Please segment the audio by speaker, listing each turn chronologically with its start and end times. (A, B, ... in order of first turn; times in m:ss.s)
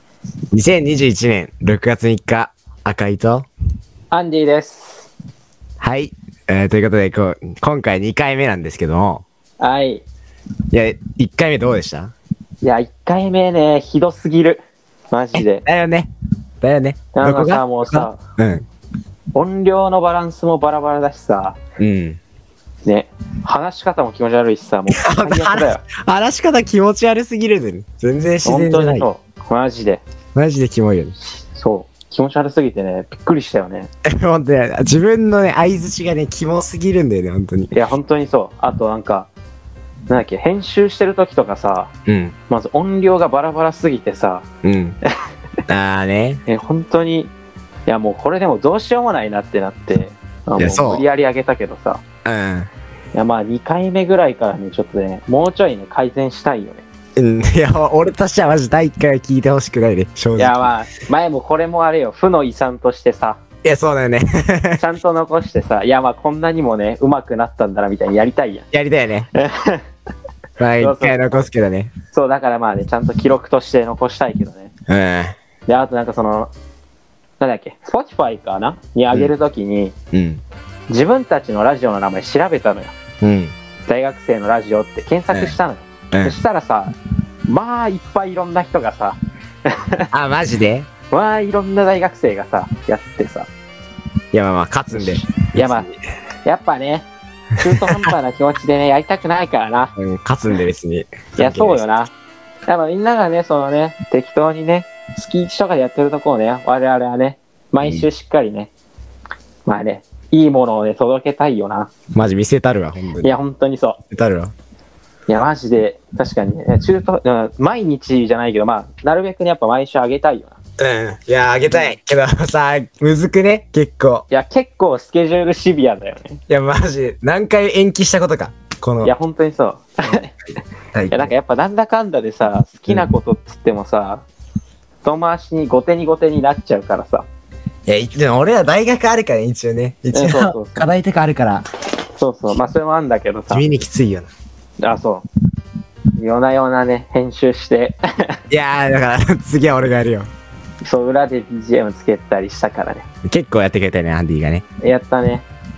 0:00.5-0:03.5 A
0:04.1-0:05.1 B
0:05.8-0:09.2 A
0:09.6-0:10.0 B
0:10.7-0:12.1 A
0:12.6-0:15.6 B
0:15.4-0:16.1 A
0:16.6-0:18.7 A
0:17.1-0:18.2 B
0:19.3-0:21.6 B
0:21.8-0:22.2 A
0:22.8-0:25.8 B
0:24.9-0:29.1 A
0:28.4-0:30.0 B
0:30.4-0:31.2 A
0:31.4-0:33.9 B
0:34.0-0:37.7 A
0:37.7-0:39.3 B
0:40.1-0:41.9 B
0:42.1-0:42.4 A
0:42.5-0:44.4 B
0:44.6-0:45.0 A
0:45.7-0:46.4 A
0:46.5-0:47.3 B
0:47.9-0:52.0 B
0:50.6-0:51.0 A
0:52.2-0:52.7 A
0:53.1-0:56.8 B
0:57.2-1:00.6 A
1:00.4-1:03.4 B
1:03.6-1:04.8 A
1:04.8-1:08.7 B
1:08.7-1:09.3 A
1:09.4-1:09.8 B
1:10.6-1:11.9 A
1:10.8-1:11.4 B
1:12.1-1:14.7 B
1:14.9-1:15.4 A
1:15.7-1:16.5 B
1:17.4-1:20.0 B
1:20.1-1:20.4 A
1:20.9-1:22.9 B
1:23.2-1:23.6 A
1:23.9-1:27.0 B
1:26.1-1:26.4 A
1:27.5-1:30.1 B
1:30.1-1:30.9 A
1:31.1-1:33.5 B
1:34.3-1:36.0 A
1:34.9-1:35.9 B
1:36.4-1:39.9 B
1:40.0-1:41.8 A
1:41.4-1:42.1 B
1:42.7-1:48.7 B
1:47.8-1:48.1 A
1:49.7-1:51.9 B
1:52.1-1:53.3 A
1:53.2-1:54.0 B
1:54.1-1:54.5 A
1:55.3-2:00.6 B
2:00.8-2:04.3 A
2:04.3-2:06.4 B
2:06.5-2:09.1 A
2:09.0-2:10.3 B
2:10.9-2:11.3 A
2:11.1-2:14.2 B
2:15.0-2:17.3 B
2:17.9-2:21.6 A
2:20.1-2:20.8 B
2:22.2-2:23.6 B
2:23.5-2:24.3 A
2:24.8-2:25.3 B
2:26.2-2:28.4 B
2:28.5-2:30.3 A
2:30.8-2:33.1 B
2:33.2-2:34.6 A
2:34.8-2:35.5 B